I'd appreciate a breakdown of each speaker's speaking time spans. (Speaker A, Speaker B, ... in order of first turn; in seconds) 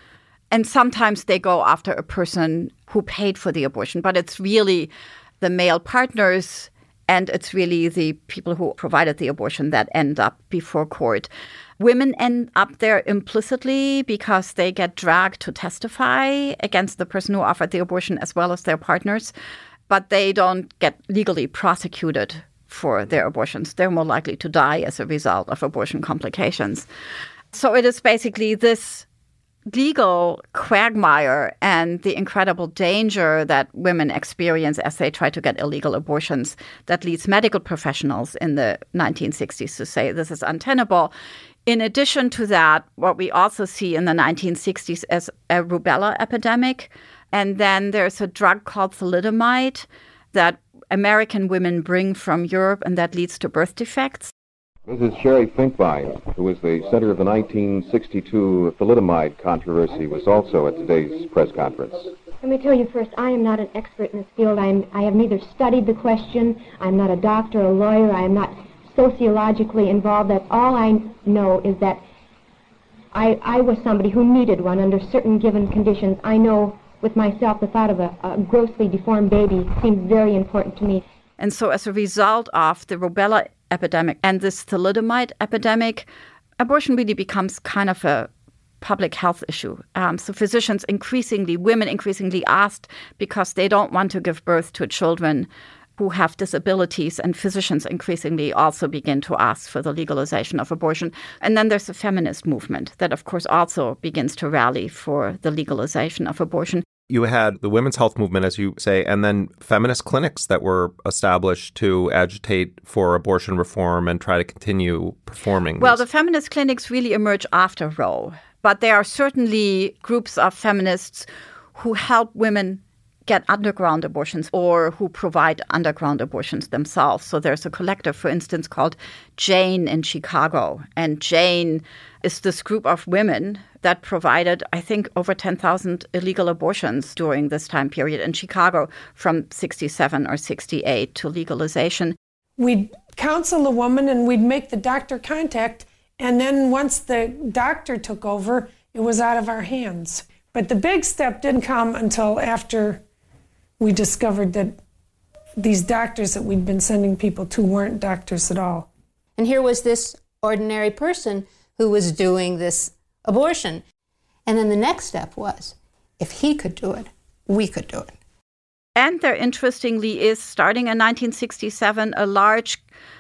Speaker A: 0.5-11.3, 11.8-19.3, 19.9-26.9, 27.5-29.1, 29.7-41.1, 41.7-54.3, 81.4-86.1, 86.6-88.3, 88.8-106.8, 115.8-142.2, 169.0-172.8
Speaker B: 54.9-62.1
Speaker C: 62.4-72.0, 73.1-81.0
Speaker D: 107.1-116.0
Speaker E: 142.6-153.0, 153.8-154.8, 155.6-158.9
Speaker F: 159.4-163.8, 164.5-168.1